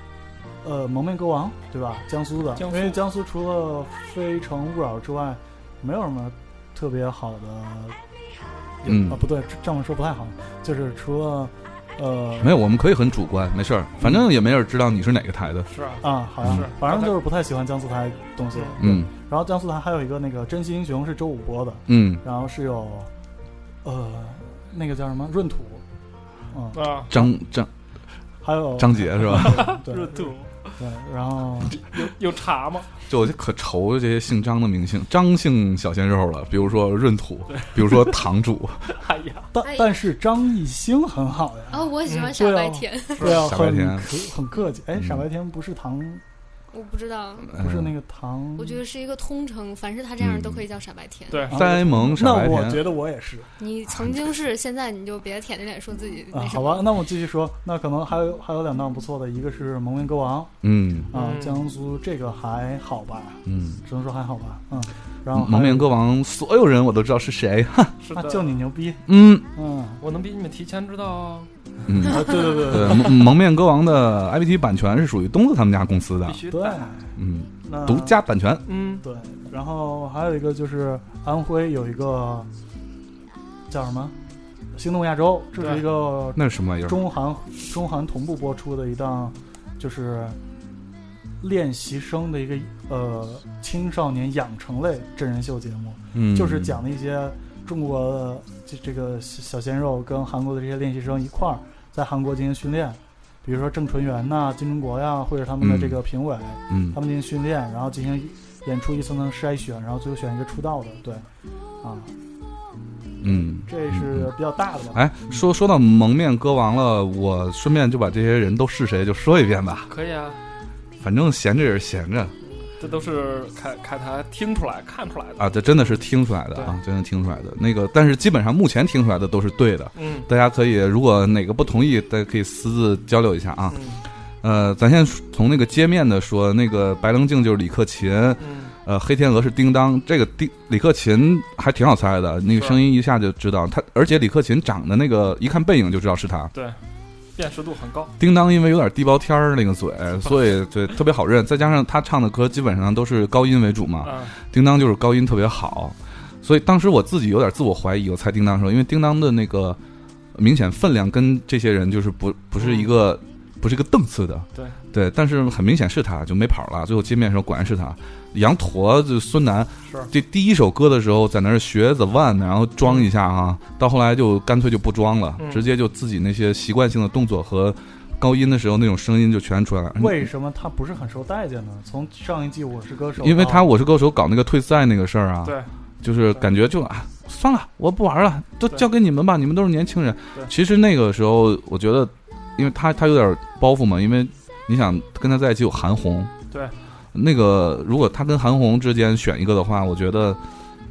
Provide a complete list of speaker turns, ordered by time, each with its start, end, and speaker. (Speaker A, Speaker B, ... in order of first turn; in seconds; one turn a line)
Speaker A: 0.6-8.0
Speaker B: 2.6-3.0
Speaker A: 8.8-12.5
Speaker C: 8.8-9.2
Speaker C: 12.4-15.7
Speaker B: 15.7-17.2
Speaker A: 16.0-23.1
Speaker C: 16.4-16.7
Speaker C: 18.8-19.1
Speaker C: 21.9-22.2
Speaker A: 23.8-25.8
Speaker A: 26.5-27.0
Speaker B: 26.7-27.1
Speaker C: 27.1-27.7
Speaker A: 28.4-31.8
Speaker C: 28.8-29.8
Speaker B: 29.3-30.7
Speaker B: 31.7-32.9
Speaker C: 33.1-38.9
Speaker B: 37.5-38.2
Speaker B: 38.9-39.5
Speaker A: 39.5-46.2
Speaker D: 39.6-40.0
Speaker D: 41.7-43.4
Speaker B: 42.0-42.4
Speaker C: 43.2-44.1
Speaker C: 45.0-45.2
Speaker D: 46.7-47.6
Speaker C: 47.5-47.9
Speaker A: 47.6-48.8
Speaker D: 48.6-51.5
Speaker C: 50.2-50.6
Speaker B: 51.3-51.6
Speaker A: 51.5-53.5
Speaker C: 51.5-52.8
Speaker D: 53.6-56.9
Speaker C: 53.9-54.2
Speaker A: 56.3-60.5
Speaker C: 60.6-61.1
Speaker A: 61.1-65.9
Speaker B: 61.1-61.7
Speaker C: 63.5-63.8
Speaker C: 65.3-68.0
Speaker B: 68.0-68.6
Speaker A: 68.1-70.0
Speaker C: 69.1-69.5
Speaker B: 70.0-71.5
Speaker C: 71.9-76.5
Speaker A: 72.0-73.1
Speaker B: 76.3-77.0
Speaker A: 76.5-77.1
Speaker C: 77.2-78.7
Speaker A: 77.7-78.2
Speaker B: 78.7-79.0
Speaker A: 79.0-82.5
Speaker A: 83.7-84.2
Speaker A: 84.7-90.4
Speaker B: 85.6-85.8
Speaker C: 86.3-87.0
Speaker A: 91.4-111.2
Speaker C: 96.1-96.8
Speaker C: 105.6-106.0
Speaker C: 106.7-107.0
Speaker A: 111.8-112.1
Speaker C: 113.2-114.3
Speaker A: 113.3-115.4
Speaker C: 114.9-119.9
Speaker B: 119.9-120.4
Speaker C: 121.0-122.3
Speaker B: 122.4-126.0
Speaker C: 125.4-133.8
Speaker B: 130.0-130.3
Speaker B: 133.7-134.0
Speaker C: 134.4-146.5
Speaker B: 138.4-138.7
Speaker B: 142.6-142.8
Speaker B: 146.5-146.8
Speaker B: 147.4-148.1
Speaker C: 148.2-159.8
Speaker B: 150.2-150.6
Speaker B: 154.0-154.3
Speaker C: 160.3-180.3
Speaker B: 162.6-162.9
Speaker B: 169.8-170.1
Speaker B: 172.8-173.1
Speaker B: 175.4-175.7
Speaker A: 180.0-183.7
Speaker C: 183.2-196.3
Speaker B: 185.4-185.7
Speaker C: 197.1-200.4